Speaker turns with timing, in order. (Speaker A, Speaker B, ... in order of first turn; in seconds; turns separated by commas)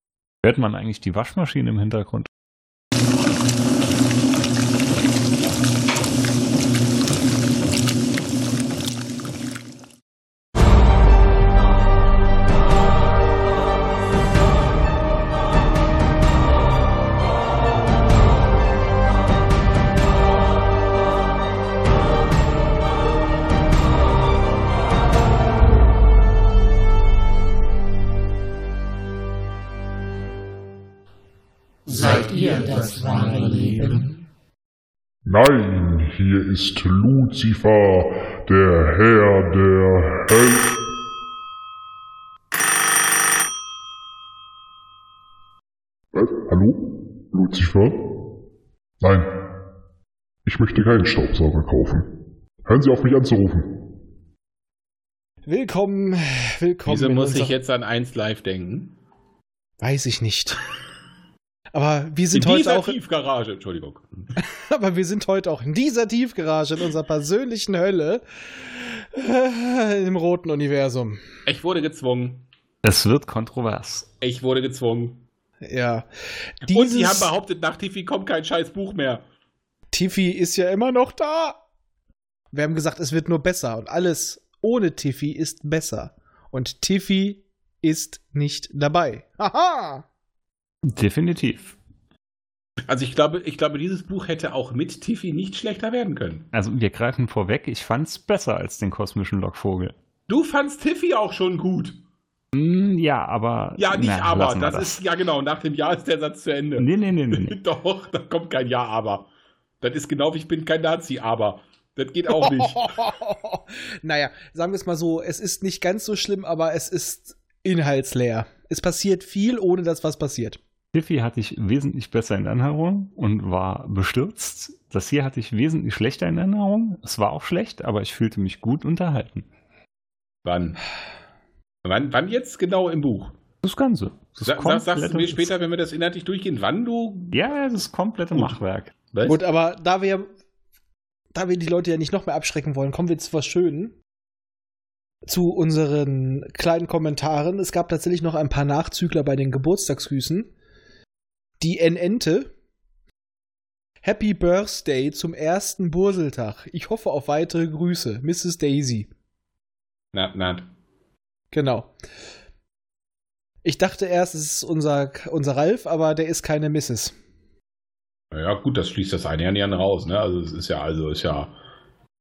Speaker A: 0.4-2.3, Speaker B: 31.9-34.1, Speaker C: 35.3-40.8, Speaker C: 46.1-48.0, Speaker C: 49.0-49.3, Speaker C: 50.5-52.1, Speaker C: 52.7-53.8, Speaker D: 55.5-57.6, Speaker E: 56.9-59.0, Speaker D: 59.8-60.6, Speaker D: 61.7-63.0, Speaker E: 62.3-64.2, Speaker D: 64.4-71.2, Speaker E: 71.5-72.5, Speaker A: 72.8-74.1, Speaker E: 74.2-75.2, Speaker D: 75.6-76.1, Speaker D: 76.6-77.3, Speaker E: 76.7-79.2, Speaker D: 79.9-81.6, Speaker D: 82.5-90.0, Speaker A: 90.8-91.8, Speaker E: 92.9-96.5, Speaker A: 96.5-100.0, Speaker E: 100.3-102.0, Speaker A: 102.5-105.0, Speaker E: 103.8-109.3, Speaker A: 106.8-107.6, Speaker E: 109.8-113.0, Speaker D: 112.3-120.6, Speaker A: 120.9-129.5, Speaker E: 130.4-130.8, Speaker E: 131.8-133.4, Speaker A: 133.6-135.5, Speaker E: 134.4-137.4, Speaker A: 137.3-138.9, Speaker E: 139.1-139.4, Speaker D: 139.2-140.3, Speaker D: 141.3-144.0, Speaker D: 145.3-150.5, Speaker D: 151.6-152.5, Speaker D: 154.0-159.1, Speaker E: 160.1-160.7, Speaker D: 161.5-161.9, Speaker D: 163.6-167.2, Speaker E: 168.3-171.6